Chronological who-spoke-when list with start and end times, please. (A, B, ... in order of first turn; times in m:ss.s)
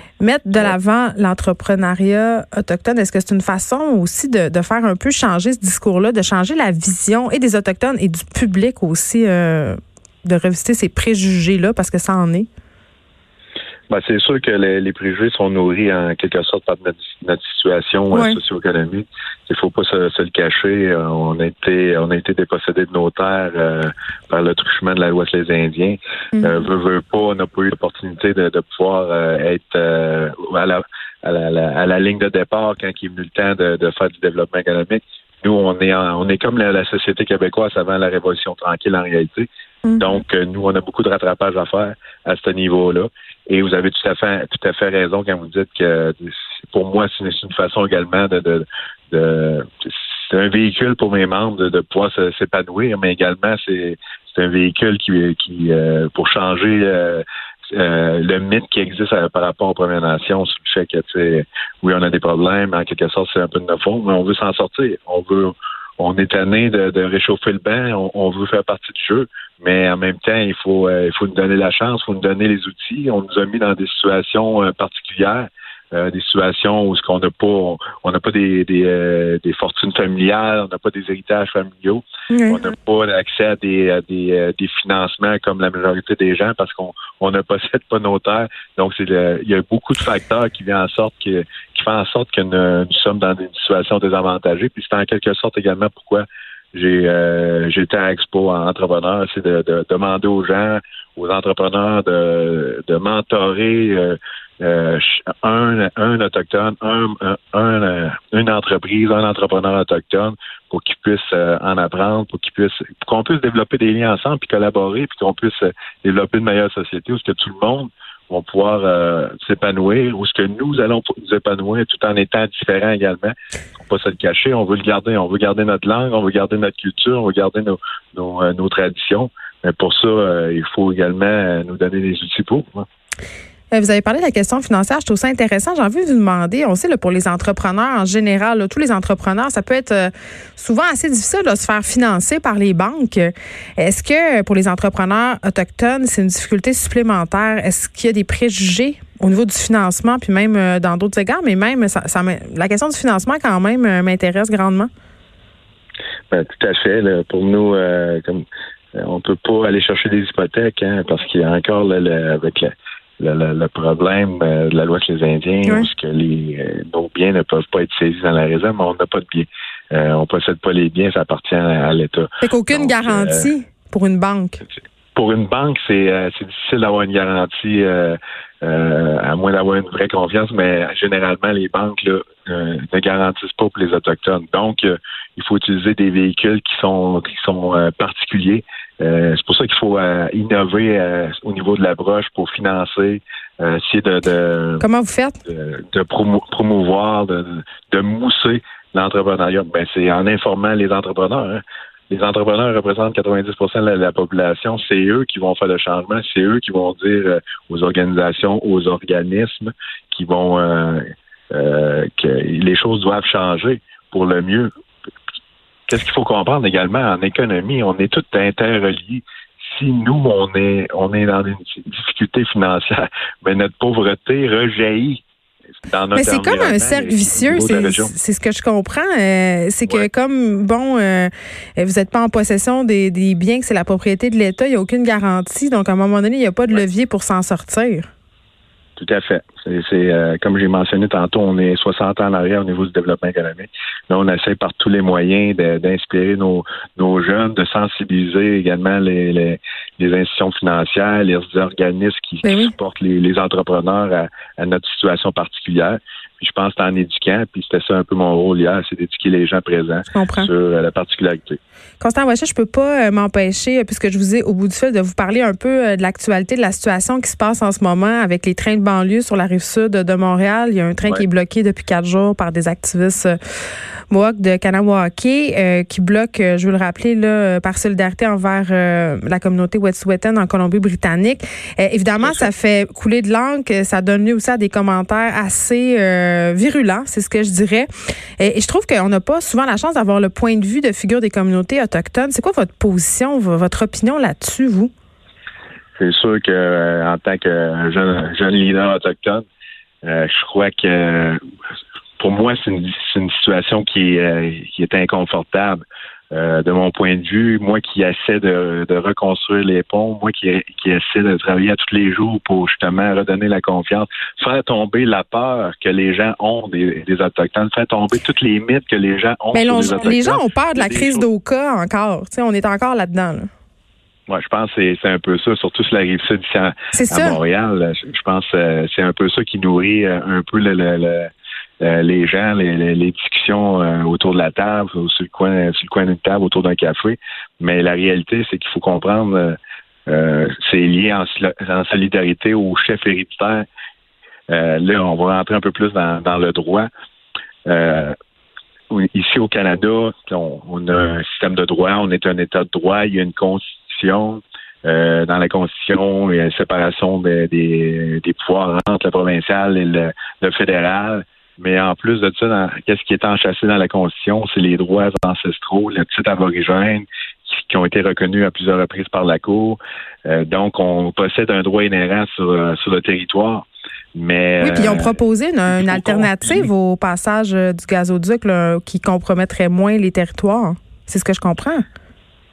0:00.2-0:12.5 A
0:13.9-0:39.5 B
0:18.1-0:18.4 A
0:26.4-0:26.6 A
0:39.8-0:40.1 A
0:40.0-2:12.9 B
1:22.3-1:22.6 A
2:13.7-2:34.9 A
2:36.3-2:53.5 B
2:45.6-2:45.9 A
2:52.4-2:54.6 A
2:55.1-3:14.8 B
3:14.8-3:15.4 A
3:15.4-3:34.7 B
3:35.9-3:45.2 B
3:45.9-3:48.1 B
3:46.1-3:58.0 A
3:59.0-4:21.6 B
4:12.4-4:12.7 A
4:20.1-4:20.5 A
4:22.0-4:33.4 A
4:34.1-4:47.9 A
4:42.2-4:42.5 B
4:48.4-4:54.9 A
4:56.0-4:59.4 B
5:00.0-5:01.4 B
5:02.2-5:21.2 B
5:19.5-5:23.5 A
5:24.3-5:43.7 B
5:26.9-5:27.4 A
5:44.5-5:46.9 B
5:47.6-5:48.1 B
5:48.9-6:16.7 B
6:14.6-6:21.8 A